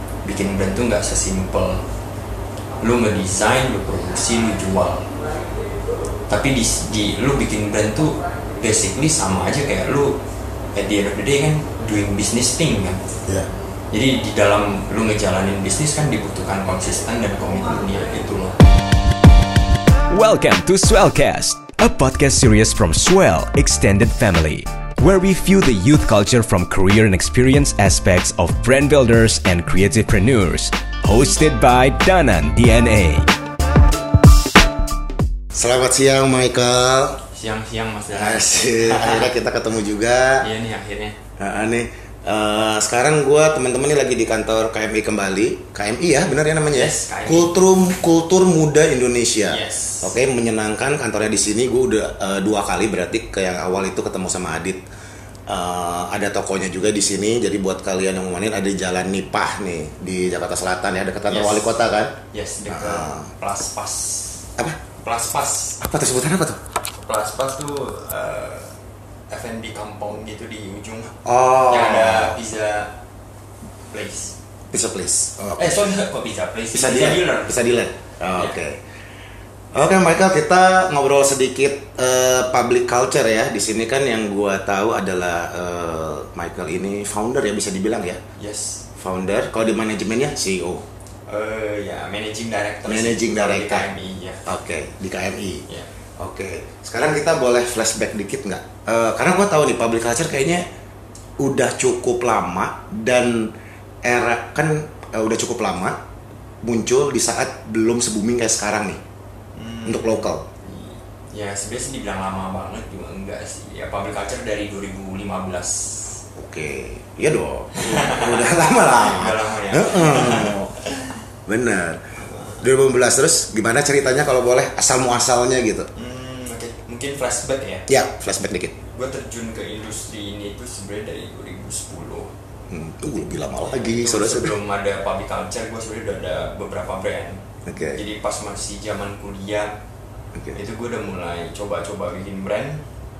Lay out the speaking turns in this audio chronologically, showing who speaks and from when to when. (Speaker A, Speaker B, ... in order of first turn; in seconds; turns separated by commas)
Speaker A: 0.2-1.8, Speaker A: 2.8-5.1, Speaker A: 6.3-10.2, Speaker A: 10.7-13.0, Speaker A: 13.9-18.6, Speaker B: 20.1-33.3, Speaker C: 35.5-37.2, Speaker A: 37.3-39.3, Speaker C: 38.1-40.5, Speaker A: 40.4-41.2, Speaker C: 41.4-54.8, Speaker A: 46.7-47.6, Speaker A: 49.5-50.1, Speaker C: 55.5-62.1, Speaker A: 61.3-61.8, Speaker A: 62.3-64.5, Speaker C: 62.7-63.3, Speaker A: 65.0-65.8, Speaker C: 65.8-66.6, Speaker A: 67.0-68.7, Speaker A: 69.3-72.9, Speaker C: 71.2-72.4, Speaker A: 73.9-74.3, Speaker C: 74.7-75.9, Speaker A: 75.6-77.6, Speaker C: 76.7-78.8, Speaker C: 79.7-88.2, Speaker A: 88.4-88.8, Speaker C: 89.0-90.8, Speaker A: 91.3-94.5, Speaker C: 92.8-93.9, Speaker C: 94.5-95.6, Speaker C: 96.2-100.6, Speaker C: 101.4-106.0, Speaker C: 106.6-109.0, Speaker A: 109.5-116.2, Speaker C: 109.8-110.4, Speaker C: 116.3-120.8, Speaker A: 117.7-121.2, Speaker C: 121.5-122.0, Speaker A: 122.2-122.6, Speaker C: 122.6-125.9, Speaker A: 126.0-127.9, Speaker C: 127.9-128.8, Speaker A: 128.9-132.3, Speaker C: 132.7-134.6, Speaker A: 133.6-139.7, Speaker C: 137.7-138.0, Speaker A: 140.5-142.8